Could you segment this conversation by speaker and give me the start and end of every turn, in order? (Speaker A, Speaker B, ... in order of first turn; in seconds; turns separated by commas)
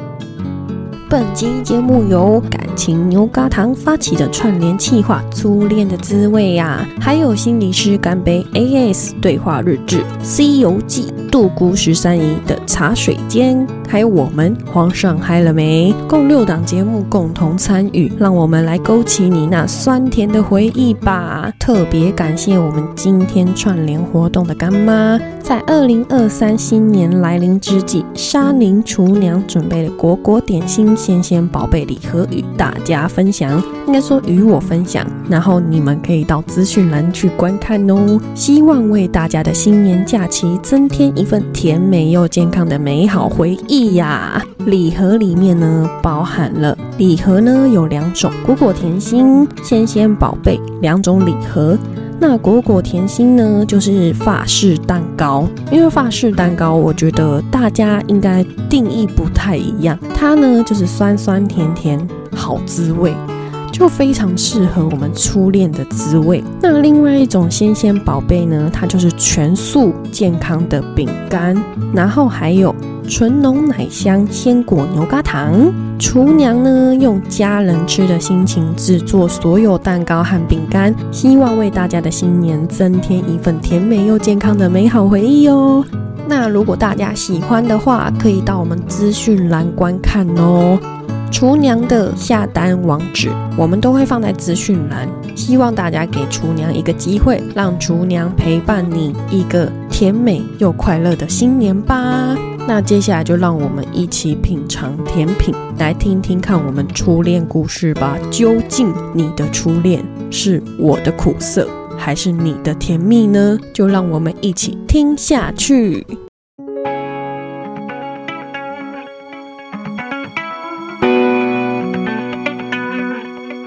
Speaker A: 1.1-116.2